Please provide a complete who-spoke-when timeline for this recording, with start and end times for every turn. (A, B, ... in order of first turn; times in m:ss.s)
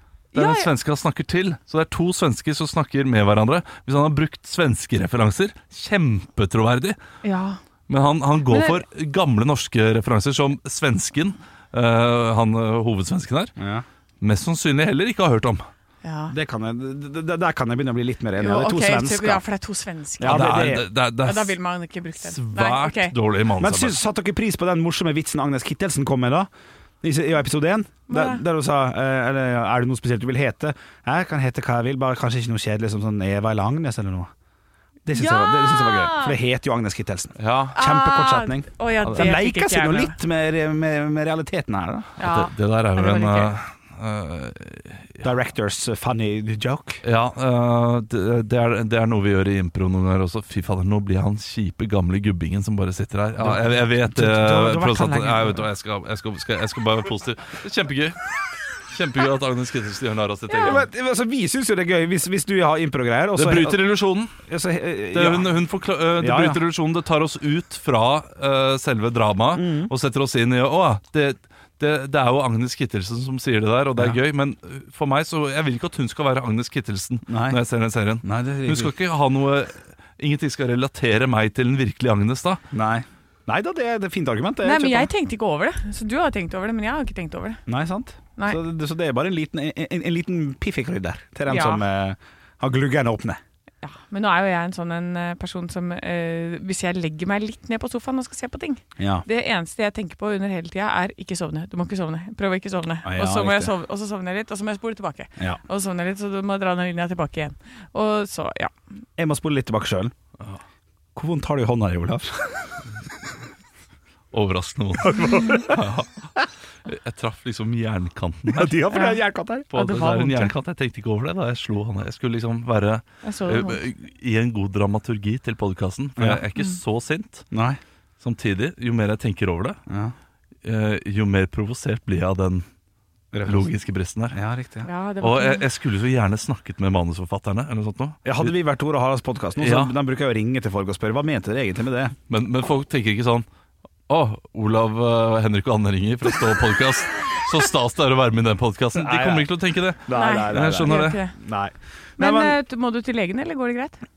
0:00.3-0:00.7 A
0:00.3-0:07.0 B
0:07.2-0:07.6 A
0:07.9-0:13.5 B
0:08.5-0:08.8 A
0:13.6-0:13.8 C
0:14.2-0:15.6 B
0:16.0-0:16.3 A
0:16.3-0:19.4 C
0:18.4-0:23.1 A
0:20.2-0:20.8 C
0:20.3-0:21.6 B
0:22.1-0:24.0 B
0:23.6-0:26.5 C
0:27.0-0:34.3 C
0:28.1-0:28.4 A
0:35.0-0:42.1 C
0:35.1-0:36.4 A
0:37.4-0:37.8 B
0:37.8-0:40.2 A
0:42.2-0:43.5 A
0:42.2-0:45.2 B
0:45.2-0:47.0 C
0:47.0-0:58.2 B
0:53.4-0:55.7 C
0:58.9-1:00.9 B
1:00.5-1:05.5 C
1:03.4-1:04.4 B
1:05.1-1:22.6 B
1:06.2-1:06.6 C
1:09.5-1:09.9 C
1:17.3-1:17.6 C
1:18.2-1:18.9 C
1:22.7-1:25.1 C
1:24.6-1:27.6 A
1:27.7-1:33.4 C
1:31.5-1:31.8 A
1:33.8-1:48.7 A
1:39.0-1:39.2 C
1:43.0-1:43.7 C
1:49.2-1:50.1 C
1:51.1-1:52.8 C
1:54.3-1:56.3 B
1:55.0-1:55.9 C
1:56.8-1:58.8 B
1:58.5-1:59.7 C
1:58.9-1:59.2 A
1:59.7-2:07.5 B
1:59.7-2:00.5 A
2:03.2-2:03.8 A
2:06.2-2:06.4 C
2:07.5-2:07.8 C
2:08.2-2:09.8 B
2:09.9-2:10.1 C
2:10.6-2:12.6 B
2:13.3-2:13.7 C
2:13.4-2:14.4 B
2:14.3-2:14.9 C
2:14.8-2:15.6 A
2:15.2-2:18.5 B
2:18.2-2:22.1 C
2:19.6-2:19.9 B
2:22.3-2:23.4 B
2:24.1-2:31.2 B
2:28.9-2:29.5 C
2:30.0-2:32.6 C
2:30.1-2:31.3 A
2:32.2-2:34.0 A